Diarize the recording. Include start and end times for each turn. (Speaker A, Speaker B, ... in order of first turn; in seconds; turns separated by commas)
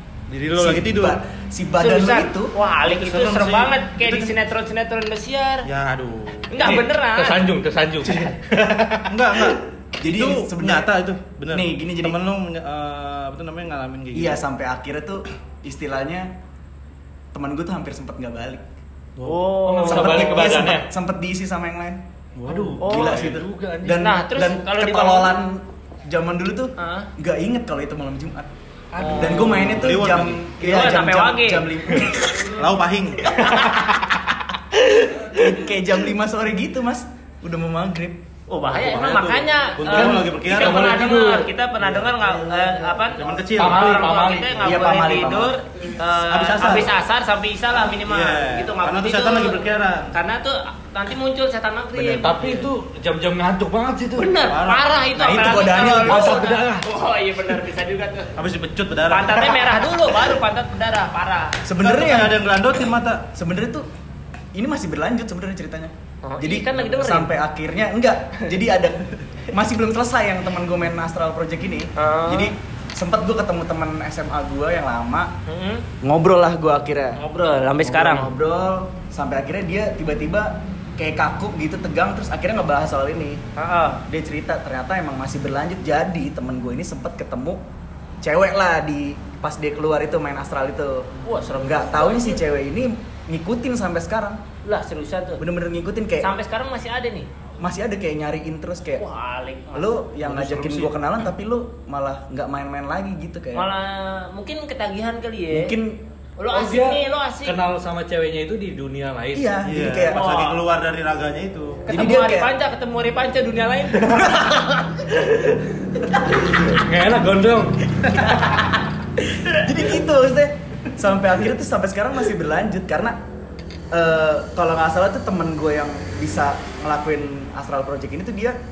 Speaker A: 0.3-1.2, Speaker B: 0.6-2.5, Speaker C: 1.8-5.7, Speaker A: 2.9-4.3, Speaker A: 5.7-6.8, Speaker C: 6.5-7.5, Speaker D: 6.6-9.1, Speaker A: 9.1-14.4, Speaker B: 10.0-10.9, Speaker B: 11.5-12.2, Speaker B: 14.1-16.3, Speaker B: 17.3-18.6, Speaker C: 19.2-20.5, Speaker D: 19.6-20.9, Speaker B: 19.9-22.0, Speaker A: 22.4-23.4, Speaker D: 22.5-24.1, Speaker C: 22.8-23.2, Speaker B: 22.8-28.5, Speaker C: 23.9-25.4, Speaker C: 26.8-27.1, Speaker D: 28.9-29.9, Speaker C: 29.0-29.5, Speaker B: 29.1-32.5, Speaker A: 29.7-30.4, Speaker C: 30.6-31.7, Speaker A: 32.5-33.7, Speaker C: 33.4-33.9, Speaker B: 33.6-34.0, Speaker B: 35.2-38.2, Speaker C: 38.5-49.6, Speaker A: 38.7-41.0, Speaker D: 39.9-41.5, Speaker A: 43.2-44.1, Speaker D: 43.6-44.7, Speaker B: 44.6-45.5, Speaker A: 46.1-46.9, Speaker A: 48.0-50.1, Speaker C: 50.1-52.7, Speaker B: 51.9-52.4, Speaker D: 52.2-54.3, Speaker C: 54.1-58.3, Speaker A: 54.5-54.9, Speaker B: 55.1-56.5, Speaker D: 55.9-56.9, Speaker A: 58.4-59.8, Speaker C: 59.1-61.6, Speaker B: 61.6-62.4, Speaker A: 61.8-63.3, Speaker B: 63.3-63.9, Speaker B: 64.5-75.3, Speaker C: 66.2-67.3, Speaker C: 72.0-72.5, Speaker C: 75.5-75.9, Speaker B: 76.0-77.2, Speaker C: 77.2-78.3, Speaker B: 77.8-83.4, Speaker C: 83.6-84.0, Speaker B: 84.1-87.6, Speaker B: 88.2-94.4, Speaker C: 91.2-92.4, Speaker C: 94.7-95.4, Speaker B: 95.4-96.3, Speaker C: 96.2-97.3, Speaker B: 97.6-99.0, Speaker C: 99.0-100.0, Speaker B: 99.8-103.7, Speaker A: 100.2-100.9, Speaker C: 103.5-105.8, Speaker B: 105.5-106.0, Speaker C: 106.4-107.6, Speaker D: 106.5-109.6, Speaker B: 109.3-110.3, Speaker A: 109.7-111.8, Speaker C: 110.1-110.6, Speaker B: 111.9-112.5, Speaker C: 111.9-114.3, Speaker B: 114.1-114.7, Speaker D: 116.5-117.8, Speaker B: 118.2-118.7, Speaker B: 119.5-123.2, Speaker B: 123.9-128.6